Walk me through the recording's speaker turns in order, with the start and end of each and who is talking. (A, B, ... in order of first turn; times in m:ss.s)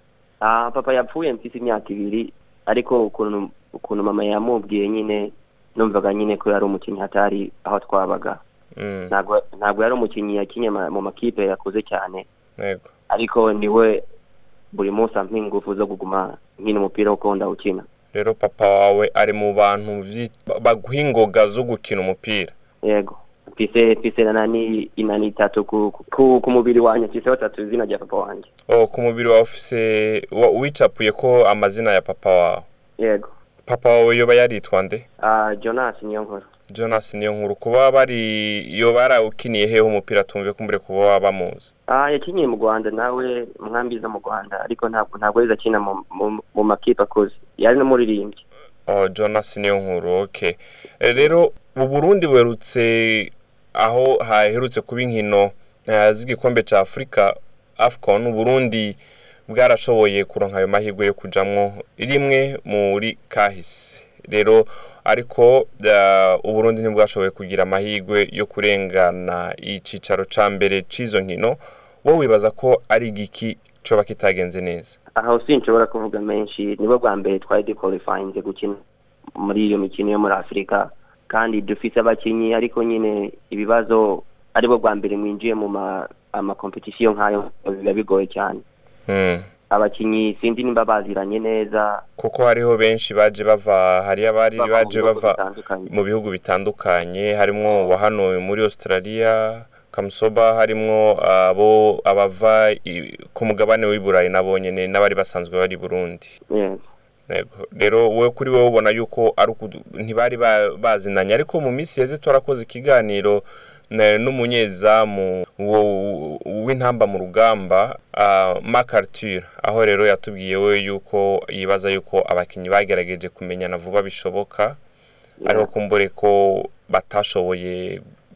0:00.4-0:08.4 A
0:08.8-0:09.1 B
0:09.1-0:12.3 A
0:12.6-0:12.9 B
0:13.1-0:14.0 A
0:14.7-0:17.8 A
0:18.1-0:22.5 B
0:22.8-0:28.5 A
0:28.7-0:32.6 B
0:33.0-0:33.3 A
0:33.7-0:35.0 B
0:35.2-0:36.5 A
0:36.7-0:41.7 B
0:41.9-0:48.4 A
0:48.9-1:15.0 B
1:15.2-1:18.8 A
1:19.4-1:28.6 A
1:29.1-1:29.5 B
1:29.7-1:32.0 A
1:32.2-1:46.4 B
1:34.6-1:35.9 A
1:46.5-1:46.8 A
1:47.3-2:04.8 B
2:05.4-2:05.7 A
2:05.4-2:08.0 B